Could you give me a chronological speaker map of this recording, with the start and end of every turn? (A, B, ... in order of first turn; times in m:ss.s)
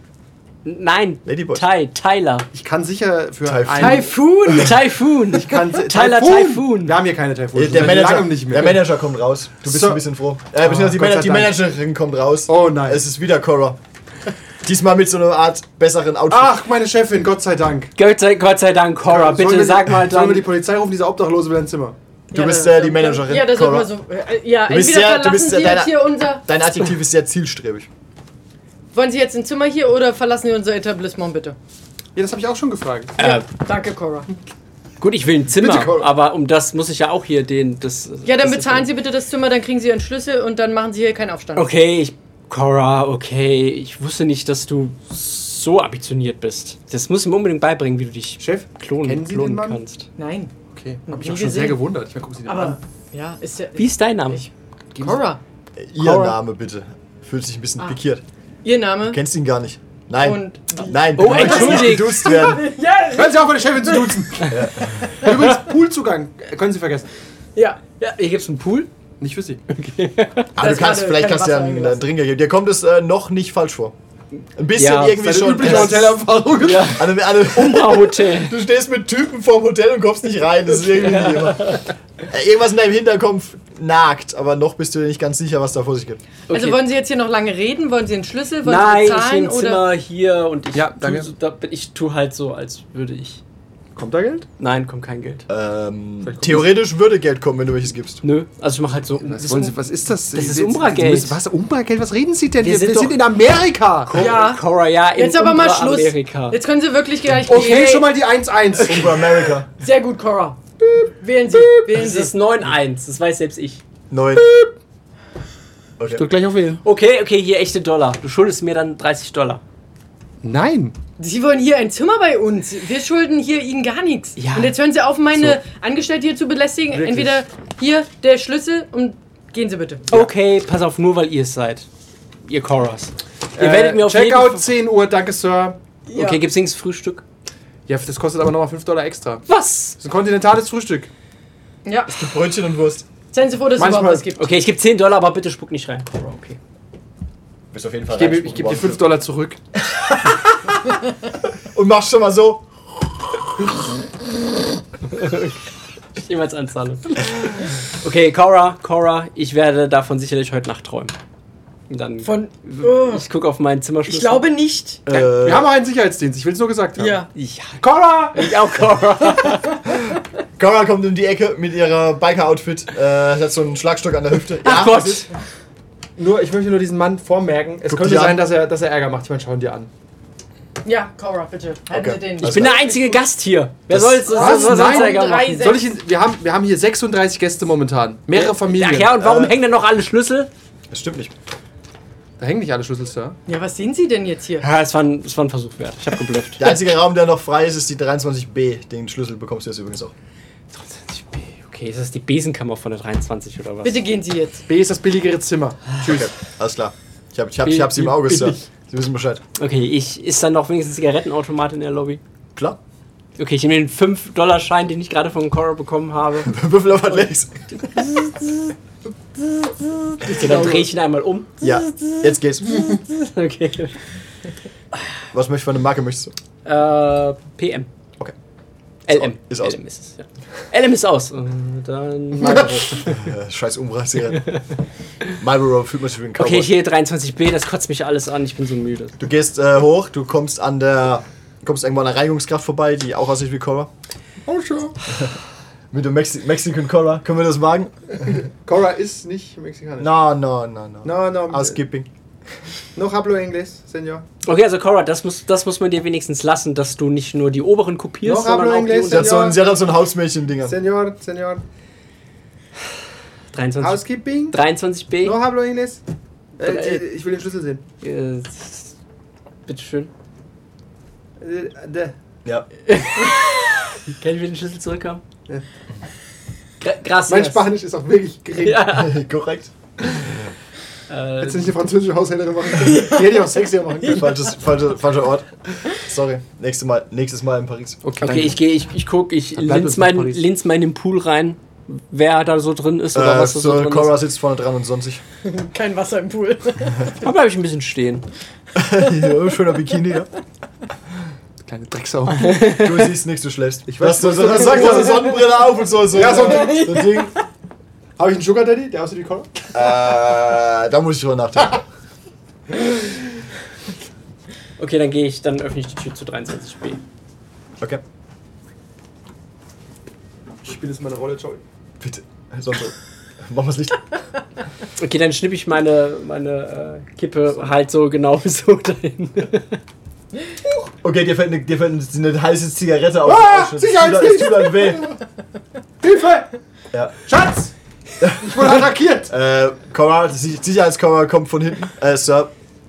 0:00.6-0:02.5 A
0:01.2-0:01.7 B
0:02.5-0:04.7 C
0:03.4-0:04.1 B
0:03.8-0:04.8 D
0:04.5-0:07.0 A
0:05.3-0:08.8 C
0:07.5-0:13.8 B
0:09.6-0:10.0 C
0:10.6-0:11.6 C
0:12.5-0:13.0 C
0:14.6-0:16.6 B
0:16.3-0:17.9 C
0:18.0-0:20.5 A
0:19.1-0:22.0 C
0:22.3-0:26.4 D
0:22.3-0:23.9 B
0:24.7-0:27.9 B
0:28.9-0:31.6 D
0:32.1-0:33.2 C
0:33.2-0:33.4 A
0:33.2-0:34.3 D
0:35.0-0:38.9 A
0:35.5-0:36.1 C
0:38.2-0:41.7 D
0:41.5-0:50.1 A
0:48.4-0:49.8 C
0:50.2-0:50.5 D
0:50.7-0:52.8 C
0:51.1-0:51.8 D
0:52.4-0:55.4 D
0:53.8-0:54.4 A
0:54.9-0:55.2 C
0:55.8-0:58.2 B
0:56.0-0:56.4 A
0:58.6-0:59.2 D
0:59.0-1:02.7 B
1:00.2-1:04.5 D
1:01.1-1:02.4 A
1:03.1-1:07.1 C
1:04.5-1:05.1 B
1:07.6-1:07.8 D
1:07.9-1:08.9 A
1:09.2-1:09.6 C
1:09.7-1:10.5 A
1:10.6-1:13.9 B
1:10.6-1:12.0 D
1:14.6-1:16.2 B
1:14.8-1:18.5 A
1:15.2-1:17.0 C
1:16.9-1:26.2 B
1:20.9-1:21.9 A
1:26.5-1:26.8 A
1:26.5-1:29.8 D
1:28.6-1:33.4 A
1:30.7-1:31.3 C
1:33.9-1:34.5 C
1:34.6-1:35.4 A
1:35.5-1:38.2 B
1:36.2-1:36.7 C
1:38.2-1:39.8 A
1:39.3-1:44.3 C
1:40.3-1:41.4 A
1:42.6-1:43.2 A
1:44.1-1:46.6 A
1:44.1-1:44.6 D
1:45.2-1:48.1 D
1:47.4-1:49.5 C
1:48.8-1:49.7 B
1:49.8-1:50.6 D
1:50.8-1:52.2 C
1:51.2-1:52.3 D
1:51.9-1:53.8 A
1:54.1-1:54.4 B
1:54.4-1:54.7 C
1:56.0-1:56.2 B
1:56.1-1:56.8 C
1:56.8-1:59.6 A
2:00.4-2:00.9 C
2:01.2-2:10.0 D
2:04.4-2:04.7 A
2:06.9-2:07.4 C
2:10.1-2:11.9 A
2:12.4-2:14.6 A
2:13.6-2:15.8 C
2:16.1-2:16.4 D
2:16.1-2:17.2 A
2:17.9-2:19.4 C
2:19.5-2:20.0 A
2:20.0-2:21.1 C
2:21.8-2:22.1 D
2:22.1-2:23.0 B
2:23.3-2:24.5 D
2:23.8-2:24.3 C
2:24.4-2:26.6 A
2:27.7-2:29.0 B
2:28.1-2:29.6 C
2:29.8-2:33.7 B
2:35.1-2:41.1 A
2:41.9-2:44.4 A
2:42.2-2:43.2 D
2:44.1-2:45.0 D
2:45.1-2:45.7 B
2:45.1-2:47.3 C
2:47.0-2:47.3 D
2:47.3-2:49.8 A
2:47.8-2:48.5 C
2:50.6-2:55.3 B
2:54.6-2:55.3 A
2:56.2-2:59.9 C
2:57.9-2:58.4 B
3:00.8-3:03.2 D
3:01.9-3:02.8 B
3:02.4-3:05.7 A
3:03.9-3:04.2 B
3:04.2-3:05.9 D
3:04.3-3:09.2 C
3:08.3-3:10.5 A
3:09.2-3:09.6 B
3:10.9-3:11.3 B
3:12.4-3:13.4 C
3:13.5-3:14.6 D
3:14.6-3:16.7 A
3:16.6-3:20.1 B
3:20.7-3:24.0 A
3:23.8-3:24.6 D
3:24.7-3:26.3 C
3:26.0-3:29.4 B
3:27.6-3:28.6 A
3:29.6-3:32.2 A
3:33.4-3:36.5 A
3:36.4-3:37.6 B
3:40.2-3:41.6 A
3:40.3-3:40.8 C
3:41.6-3:43.0 B
3:42.7-3:44.0 A
3:45.3-3:46.3 B
3:46.6-3:47.9 A
3:49.1-3:53.2 A
3:49.1-3:49.8 B
3:53.0-3:54.5 B
3:55.4-3:56.7 B
3:56.4-3:59.2 A
3:59.2-4:03.9 B
4:04.4-4:05.0 C
4:05.9-4:07.9 B
4:08.3-4:10.1 C
4:10.0-4:12.1 B
4:11.0-4:11.8 C
4:12.9-4:14.2 C
4:14.4-4:19.4 A
4:18.2-4:19.6 C
4:19.1-4:20.8 B
4:20.6-4:21.6 C
4:23.5-4:25.4 A
4:23.8-4:24.6 C
4:25.2-4:26.0 C
4:26.6-4:27.8 C
4:26.6-4:27.0 A
4:28.0-4:28.9 A
4:29.6-4:30.1 A
4:31.4-4:32.1 C
4:32.9-4:35.2 A
4:36.8-4:37.7 A
4:37.3-4:38.9 C
4:38.6-4:39.2 A
4:38.9-4:40.5 B
4:41.1-4:41.8 A
4:41.4-4:44.4 C
4:44.1-4:48.0 B
4:48.0-4:48.6 C
4:48.2-4:54.2 A
4:49.6-4:50.4 C
4:53.1-4:55.2 B
4:55.4-4:57.2 D
4:57.2-4:58.3 A
4:58.7-5:00.3 B
5:01.6-5:02.8 C
5:02.4-5:02.9 A
5:02.6-5:07.3 B
5:03.9-5:05.4 C
5:06.1-5:07.2 C
5:06.3-5:07.3 D
5:08.2-5:09.8 C
5:09.7-5:11.8 B
5:14.8-5:17.0 A
5:20.6-5:21.6 C
5:22.0-5:24.1 B
5:25.0-5:29.8 A
5:31.0-5:35.1 B
5:33.2-5:35.2 C
5:36.0-5:36.5 C
5:37.2-5:39.3 C
5:38.2-5:42.5 B